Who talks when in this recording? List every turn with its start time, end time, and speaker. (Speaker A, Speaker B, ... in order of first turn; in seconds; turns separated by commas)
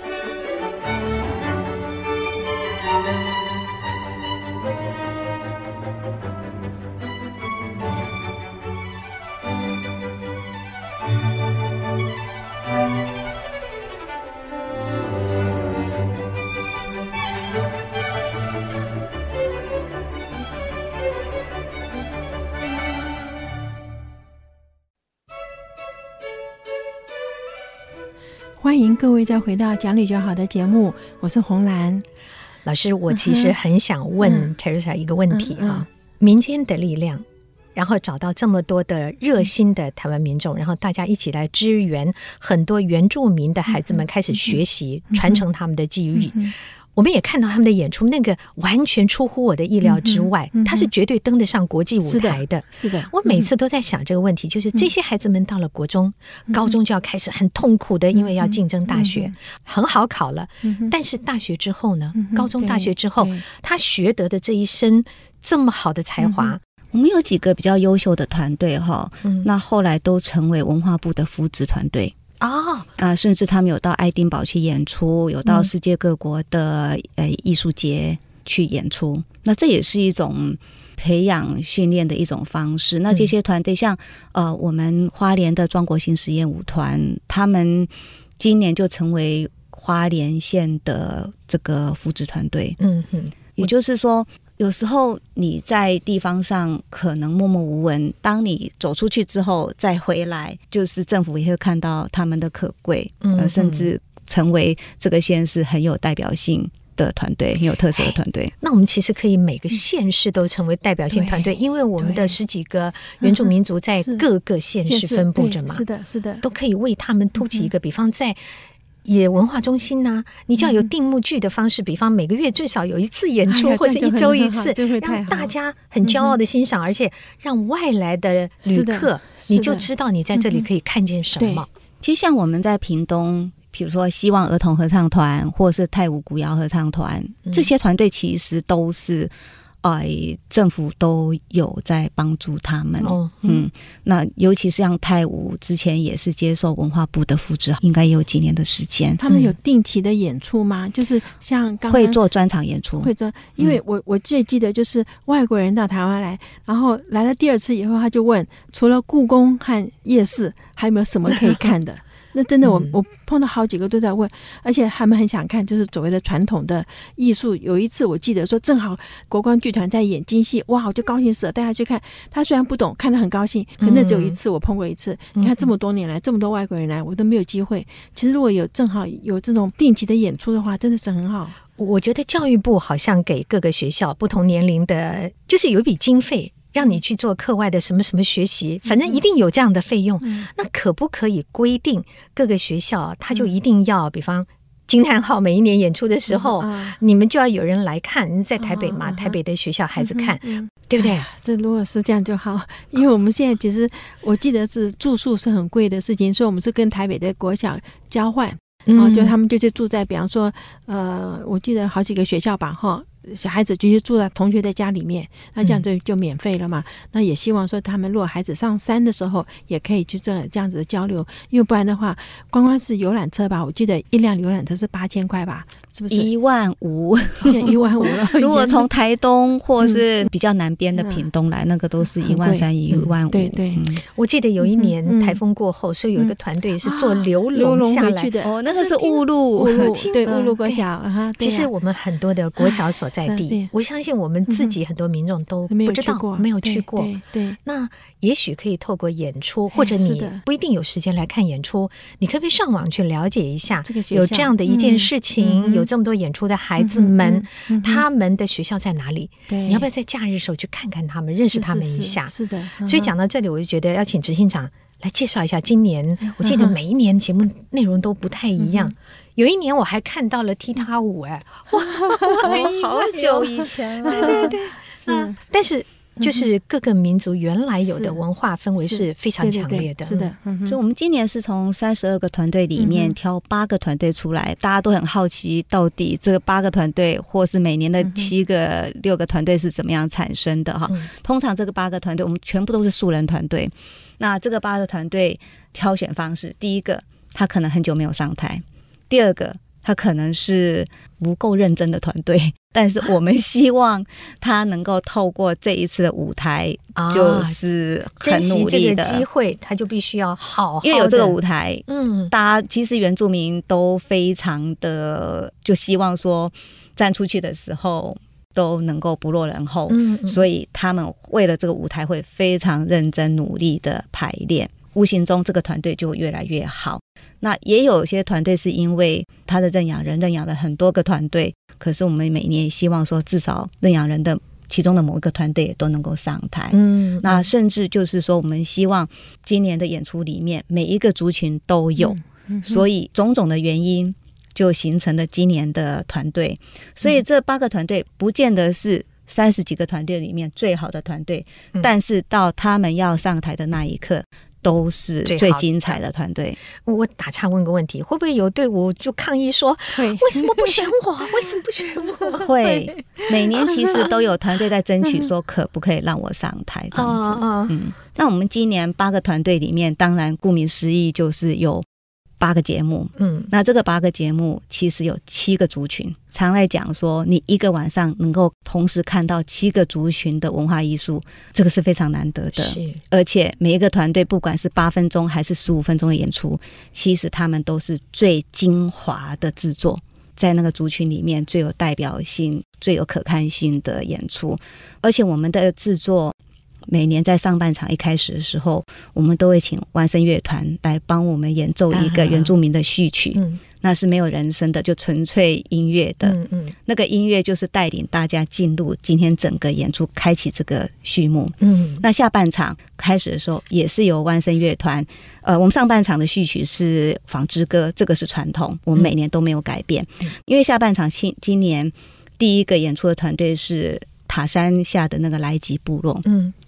Speaker A: 28.6-32.0, Speaker B: 32.6-66.6, Speaker A: 33.2-33.5, Speaker A: 34.2-34.5, Speaker A: 35.3-35.8, Speaker A: 43.7-44.6, Speaker A: 45.1-45.4, Speaker A: 46.1-46.5, Speaker A: 49.8-50.9, Speaker A: 52.0-53.5, Speaker A: 56.5-56.8, Speaker A: 58.1-59.3, Speaker A: 60.6-60.9, Speaker A: 62.1-63.4, Speaker A: 66.2-66.5, Speaker C: 66.9-72.1, Speaker B: 69.2-69.5, Speaker B: 72.4-72.9, Speaker C: 73.0-92.8, Speaker B: 92.8-93.7, Speaker C: 93.6-108.5, Speaker B: 103.2-103.9, Speaker B: 107.9-115.8, Speaker A: 111.1-112.3, Speaker A: 113.2-114.3, Speaker A: 114.8-116.4, Speaker B: 116.4-118.4, Speaker A: 117.4-117.7, Speaker B: 119.0-131.7, Speaker A: 120.6-120.9, Speaker A: 123.5-125.5, Speaker A: 126.0-126.4, Speaker A: 128.6-130.7, Speaker A: 131.4-131.7, Speaker C: 132.0-149.2, Speaker B: 143.0-143.7, Speaker A: 149.2-152.2, Speaker B: 149.3-149.6, Speaker C: 151.8-153.8, Speaker A: 153.0-181.6, Speaker B: 162.6-162.9, Speaker B: 173.8-174.4, Speaker B: 175.4-175.7, Speaker B: 181.7-201.3, Speaker A: 188.9-189.2, Speaker A: 196.3-197.0, Speaker A: 198.6-199.4, Speaker A: 200.0-226.3, Speaker B: 208.9-209.3, Speaker C: 226.1-234.0, Speaker A: 227.4-228.9, Speaker A: 230.9-231.2, Speaker A: 232.2-233.8, Speaker B: 234.1-238.3, Speaker A: 234.6-235.4, Speaker A: 236.2-241.7, Speaker C: 238.4-240.0, Speaker B: 239.7-240.8, Speaker B: 241.4-273.4, Speaker A: 242.6-243.7, Speaker A: 244.5-244.7, Speaker A: 245.7-247.6, Speaker A: 249.7-250.4, Speaker A: 253.8-255.9, Speaker A: 256.8-258.0, Speaker A: 259.5-259.9, Speaker A: 261.4-263.1, Speaker A: 266.2-266.8, Speaker A: 268.6-268.9, Speaker A: 271.7-275.4, Speaker C: 272.3-274.6, Speaker B: 274.0-280.3, Speaker A: 276.2-276.4, Speaker A: 277.8-278.2, Speaker A: 278.8-280.8, Speaker C: 280.6-309.2, Speaker A: 282.8-283.1, Speaker A: 288.0-288.3, Speaker B: 306.9-307.6, Speaker B: 308.2-312.3, Speaker C: 310.8-356.6, Speaker B: 319.9-320.4, Speaker B: 336.7-337.5, Speaker A: 342.0-342.8, Speaker B: 355.2-355.6, Speaker B: 356.8-362.7, Speaker A: 359.9-360.9, Speaker C: 362.4-371.9, Speaker B: 366.9-367.8, Speaker C: 372.4-396.4, Speaker B: 373.2-373.5, Speaker B: 382.5-383.0, Speaker C: 396.9-426.2, Speaker B: 401.9-402.5, Speaker B: 403.4-403.6, Speaker B: 406.2-406.8, Speaker B: 411.6-412.0, Speaker B: 426.2-426.5